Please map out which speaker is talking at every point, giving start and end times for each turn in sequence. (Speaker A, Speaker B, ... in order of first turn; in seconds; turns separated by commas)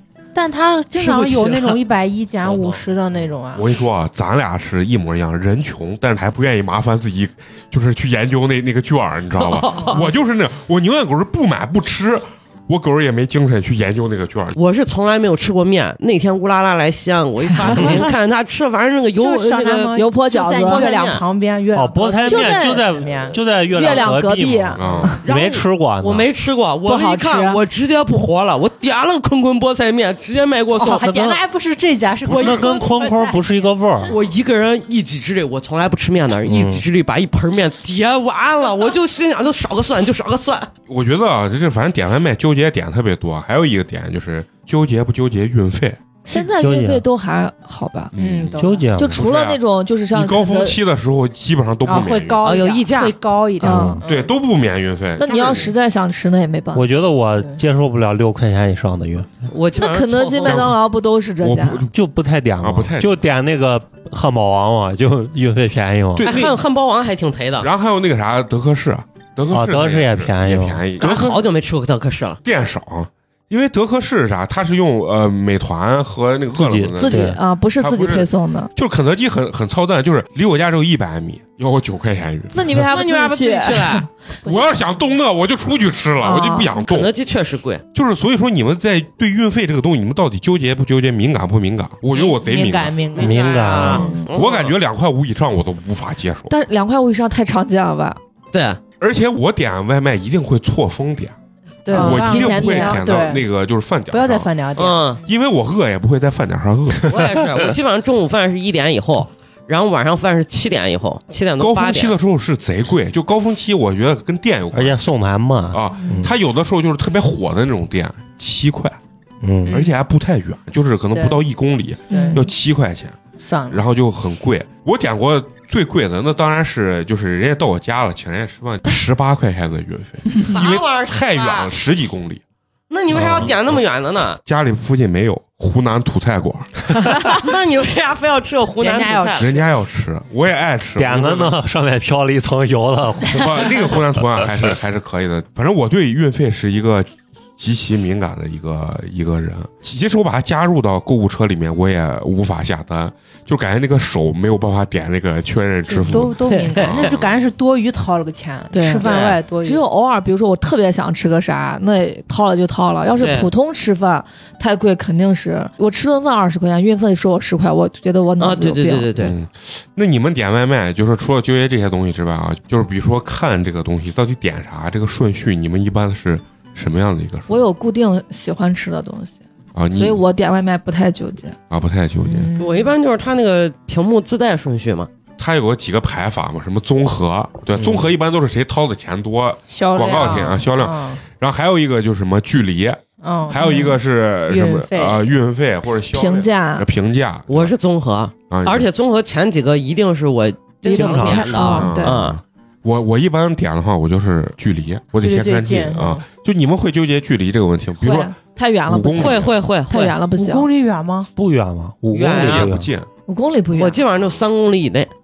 Speaker A: 0.3-3.7, Speaker B: 0.9-1.8, Speaker B: 2.5-2.8, Speaker C: 3.5-14.6, Speaker B: 9.4-10.0, Speaker A: 9.7-10.2, Speaker B: 14.6-20.0, Speaker D: 17.7-18.0, Speaker A: 17.7-18.0, Speaker A: 19.1-24.1, Speaker D: 19.9-20.9, Speaker B: 20.6-21.2, Speaker E: 21.7-26.3, Speaker D: 22.2-22.8, Speaker D: 23.7-25.2, Speaker C: 24.8-25.2, Speaker B: 25.2-31.1, Speaker D: 26.9-27.6, Speaker A: 30.7-34.1, Speaker E: 31.0-31.4, Speaker E: 32.3-34.1, Speaker C: 32.3-32.6, Speaker B: 34.1-40.7, Speaker E: 36.5-36.8, Speaker C: 40.9-46.0, Speaker D: 46.2-48.1, Speaker E: 46.5-47.0, Speaker C: 48.1-49.6, Speaker A: 48.1-48.9, Speaker E: 48.6-49.2, Speaker D: 49.0-50.8, Speaker C: 50.1-52.4, Speaker A: 51.8-54.3, Speaker B: 52.4-53.1, Speaker D: 53.6-54.0, Speaker E: 53.6-54.0, Speaker C: 54.0-55.7, Speaker D: 55.2-56.9, Speaker E: 56.7-59.4, Speaker B: 59.5-60.7, Speaker D: 59.8-61.9, Speaker C: 60.4-60.8, Speaker C: 61.4-61.9, Speaker E: 61.9-66.3, Speaker C: 62.6-63.3, Speaker C: 66.2-66.6, Speaker B: 66.2-67.7, Speaker C: 67.6-71.4, Speaker E: 69.5-70.9, Speaker B: 71.0-72.4, Speaker C: 72.4-77.2, Speaker E: 76.5-77.4, Speaker D: 77.0-78.7, Speaker C: 77.8-82.7, Speaker D: 82.5-84.1, Speaker B: 82.9-84.1, Speaker A: 84.4-85.0, Speaker C: 84.4-87.1, Speaker D: 86.2-86.7, Speaker B: 86.8-87.8, Speaker C: 87.9-93.0, Speaker A: 92.1-94.2, Speaker B: 93.1-94.7, Speaker E: 93.2-94.1, Speaker D: 93.8-94.3, Speaker C: 94.3-96.5, Speaker D: 96.5-98.2, Speaker B: 98.5-98.8, Speaker C: 99.0-101.3, Speaker A: 101.8-103.5, Speaker D: 101.9-103.1, Speaker C: 101.9-104.5, Speaker A: 104.1-105.2, Speaker B: 104.8-105.2, Speaker C: 105.2-107.1, Speaker B: 107.1-112.2, Speaker C: 111.6-115.0, Speaker E: 114.7-116.3, Speaker C: 115.7-119.0, Speaker E: 119.4-119.8, Speaker C: 119.7-123.2, Speaker A: 121.1-121.4, Speaker D: 122.1-122.4, Speaker A: 122.1-122.5, Speaker A: 123.4-123.8, Speaker C: 123.7-132.4, Speaker B: 130.3-131.7, Speaker B: 132.9-134.4, Speaker C: 133.1-133.6, Speaker C: 134.4-137.1, Speaker B: 137.3-139.6, Speaker A: 138.8-139.6, Speaker C: 139.3-141.6, Speaker E: 141.0-143.9, Speaker C: 143.3-157.4, Speaker A: 155.9-159.8, Speaker B: 156.5-157.2, Speaker D: 158.7-159.1, Speaker B: 159.0-159.4, Speaker D: 159.6-169.1, Speaker B: 163.2-163.5, Speaker B: 168.4-169.3, Speaker C: 169.2-177.7, Speaker D: 177.5-179.4, Speaker C: 179.7-180.2, Speaker D: 179.9-181.6, Speaker C: 181.7-182.5, Speaker A: 182.2-182.9, Speaker B: 182.6-185.1, Speaker C: 185.4-197.7, Speaker E: 187.8-188.0, Speaker A: 189.7-191.2, Speaker A: 193.2-195.2, Speaker D: 196.1-196.8, Speaker B: 197.5-202.4, Speaker C: 198.5-198.9, Speaker D: 200.8-202.2, Speaker E: 200.9-201.8, Speaker C: 201.7-208.3, Speaker A: 205.2-206.2, Speaker D: 208.0-210.7, Speaker C: 208.9-209.5, Speaker B: 209.2-210.2, Speaker A: 210.3-211.3, Speaker E: 211.3-212.9, Speaker B: 212.1-212.7, Speaker C: 212.4-213.1, Speaker D: 213.3-214.0, Speaker B: 213.7-215.1